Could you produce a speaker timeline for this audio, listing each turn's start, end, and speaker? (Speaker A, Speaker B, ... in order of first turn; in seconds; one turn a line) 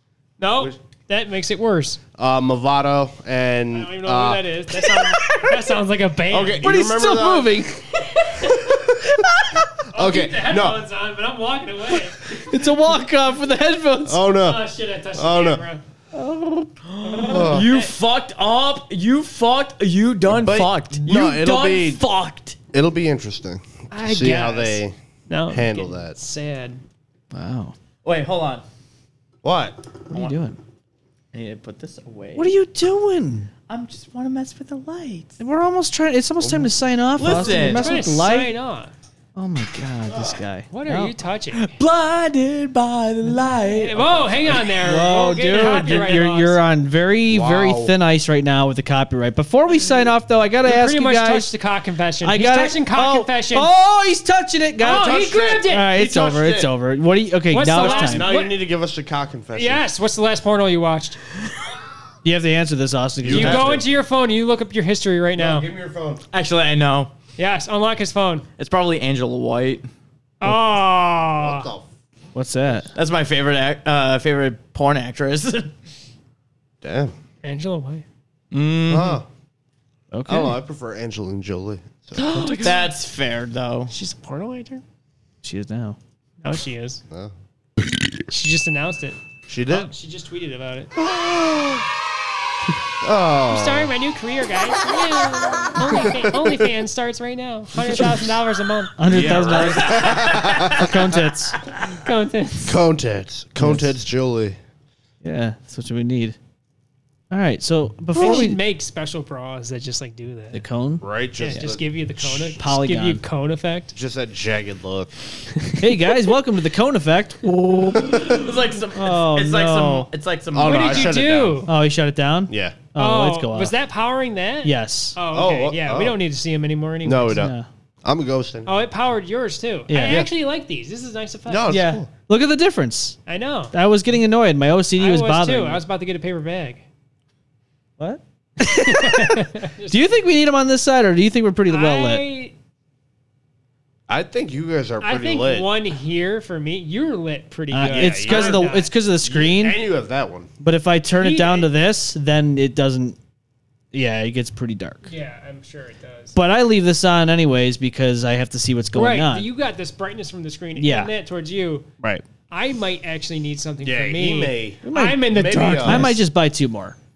Speaker A: 0.4-2.0
Speaker B: 2.2-4.5
Speaker A: 3.7-6.7
Speaker B: 6.3-7.6
Speaker C: 6.6-7.8
Speaker A: 8.0-8.8
Speaker A: 9.9-12.4
Speaker B: 9.9-10.8
Speaker C: 12.3-14.2
Speaker B: 14.1-15.6
Speaker A: 14.4-15.8
Speaker D: 16.1-22.6
Speaker A: 17.0-17.9
Speaker B: 17.2-17.7
Speaker B: 20.3-22.0
Speaker B: 22.7-24.9
Speaker A: 23.9-26.8
Speaker B: 25.5-26.2
Speaker C: 27.3-27.7
Speaker D: 28.0-28.6
Speaker B: 29.4-29.8
Speaker C: 30.1-30.6
Speaker D: 31.3-32.5
Speaker C: 32.4-33.5
Speaker D: 33.7-35.3
Speaker C: 35.4-38.5
Speaker B: 36.4-36.7
Speaker D: 37.2-38.1
Speaker B: 37.3-37.6
Speaker A: 37.7-38.9
Speaker C: 39.4-41.1
Speaker A: 40.7-41.7
Speaker D: 41.5-44.8
Speaker A: 43.8-46.6
Speaker C: 44.8-51.5
Speaker D: 45.5-46.0
Speaker B: 47.3-47.9
Speaker A: 50.6-53.7
Speaker C: 52.2-55.1
Speaker A: 54.8-55.9
Speaker B: 54.8-56.7
Speaker C: 55.7-58.3
Speaker A: 57.5-58.6
Speaker B: 57.7-59.8
Speaker A: 59.5-61.2
Speaker C: 62.2-63.8
Speaker B: 63.2-63.9
Speaker A: 63.3-65.7
Speaker B: 65.4-66.2
Speaker D: 66.3-67.1
Speaker A: 67.4-68.5
Speaker D: 68.6-69.9
Speaker A: 70.4-71.7
Speaker B: 71.4-71.9
Speaker C: 72.3-72.9
Speaker D: 72.9-75.7
Speaker B: 76.8-77.1
Speaker A: 77.4-78.0
Speaker D: 78.5-79.2
Speaker B: 78.9-79.3
Speaker C: 80.1-80.6
Speaker B: 80.3-82.3
Speaker D: 82.2-83.9
Speaker C: 82.2-82.8
Speaker A: 83.9-84.8
Speaker C: 85.4-86.0
Speaker A: 86.4-87.0
Speaker B: 87.1-87.3
Speaker A: 88.3-90.9
Speaker B: 89.5-89.9
Speaker B: 91.0-91.8
Speaker B: 93.0-93.9
Speaker A: 93.5-100.2
Speaker B: 95.8-96.5
Speaker C: 99.0-101.6
Speaker B: 99.0-101.2
Speaker D: 99.5-100.8
Speaker A: 101.9-102.8
Speaker B: 102.6-104.6
Speaker C: 103.6-103.9
Speaker C: 105.2-106.3
Speaker C: 107.3-108.6
Speaker A: 108.2-110.6
Speaker C: 110.5-111.0
Speaker B: 111.0-112.5
Speaker A: 111.4-113.9
Speaker C: 112.6-113.2
Speaker B: 113.9-115.1
Speaker A: 115.7-115.9
Speaker C: 115.8-120.1
Speaker D: 118.0-121.2
Speaker B: 120.5-121.7
Speaker A: 120.6-121.7
Speaker C: 121.7-123.7
Speaker B: 122.5-122.8
Speaker A: 123.0-127.4
Speaker C: 124.6-125.2
Speaker B: 125.3-126.2
Speaker B: 127.0-128.7
Speaker C: 127.3-127.7
Speaker A: 128.7-131.8
Speaker C: 129.9-130.3
Speaker B: 131.5-132.1
Speaker C: 131.7-133.2
Speaker A: 133.3-133.7
Speaker C: 133.7-135.8
Speaker A: 135.0-136.8
Speaker C: 138.0-142.2
Speaker A: 138.6-140.2
Speaker A: 141.7-142.5
Speaker B: 144.1-145.7
Speaker A: 145.0-148.9
Speaker C: 147.7-149.8
Speaker B: 147.8-148.7
Speaker B: 149.2-150.5
Speaker C: 150.6-153.2
Speaker A: 151.1-151.7
Speaker C: 153.9-155.1
Speaker A: 155.1-156.3
Speaker C: 156.3-159.5
Speaker A: 158.9-161.9
Speaker C: 160.8-161.1
Speaker A: 162.5-166.1
Speaker B: 163.8-166.2
Speaker C: 164.8-167.0